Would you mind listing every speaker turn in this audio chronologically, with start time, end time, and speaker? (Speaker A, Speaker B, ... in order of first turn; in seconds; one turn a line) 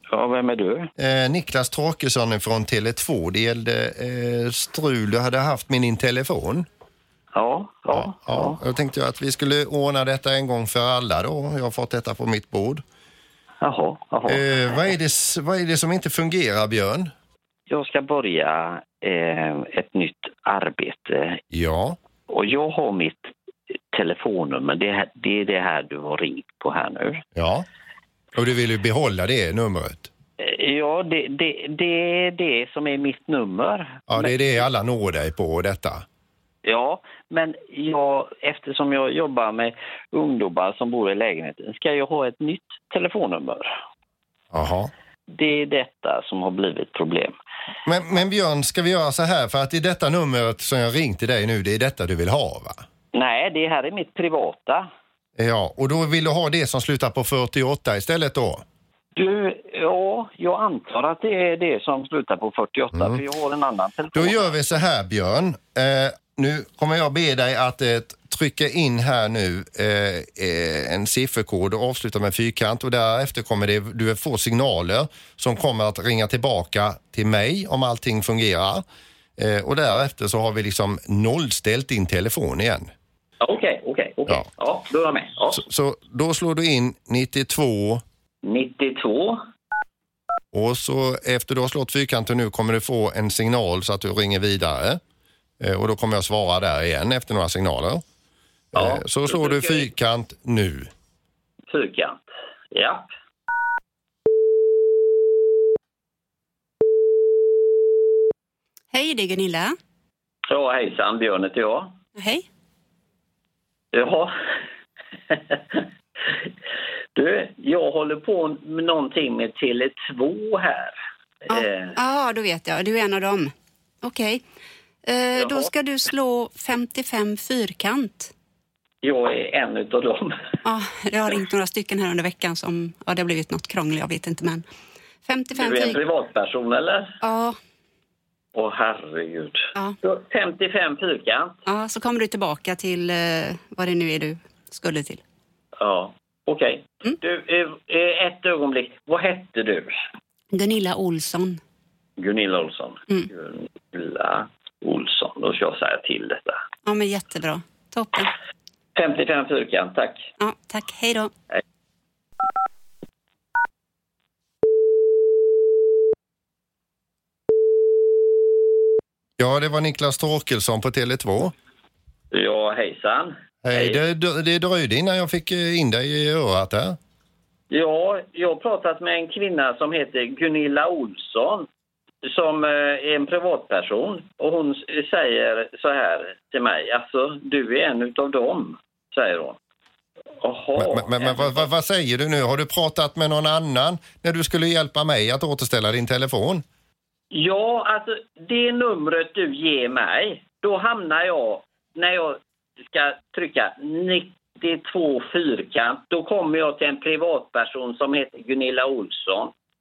Speaker A: 0.1-0.9
Speaker B: 1.0-6.7
Speaker A: 7.3-8.6
Speaker B: 7.9-12.8
Speaker A: 13.6-14.9
Speaker B: 14.3-17.1
Speaker A: 17.7-21.4
Speaker B: 21.5-22.0
Speaker A: 22.3-23.3
Speaker A: 23.9-27.2
Speaker B: 27.4-27.7
Speaker B: 28.3-30.1
Speaker A: 30.4-34.4
Speaker B: 34.1-36.0
Speaker A: 36.6-43.8
Speaker B: 44.5-44.9
Speaker A: 45.3-47.4
Speaker B: 47.9-52.9
Speaker A: 53.1-54.9
Speaker B: 55.4-58.6
Speaker A: 59.2-64.6
Speaker B: 62.9-63.2
Speaker B: 64.1-78.8
Speaker B: 79.4-82.9
Speaker A: 83.4-85.6
Speaker B: 85.5-88.0
Speaker A: 88.4-89.4
Speaker B: 90.5-95.0
Speaker B: 95.6-98.0
Speaker B: 98.7-100.9
Speaker A: 98.7-99.9
Speaker A: 101.7-103.1
Speaker C: 108.9-109.8
Speaker A: 110.5-112.0
Speaker C: 112.2-112.4
Speaker A: 113.9-114.3
Speaker A: 115.3-116.5
Speaker A: 117.2-121.0
Speaker C: 121.5-124.4
Speaker A: 121.5-122.0
Speaker C: 125.1-128.3
Speaker A: 125.4-125.7
Speaker A: 129.0-130.4
Speaker C: 130.7-134.7
Speaker C: 135.3-136.0
Speaker A: 135.5-137.1
Speaker C: 137.2-137.6
Speaker A: 138.5-141.6
Speaker C: 141.7-145.2
Speaker A: 145.8-150.0
Speaker C: 150.5-151.6
Speaker A: 152.2-156.6
Speaker C: 156.9-158.3
Speaker A: 159.0-160.3
Speaker C: 160.4-161.3
Speaker B: 169.4-171.5
Speaker A: 172.3-174.0
Speaker B: 173.6-177.0
Speaker A: 177.7-181.7
Speaker A: 182.2-189.6
Speaker A: 190.4-191.7
Speaker B: 190.8-196.6
Speaker A: 197.3-209.5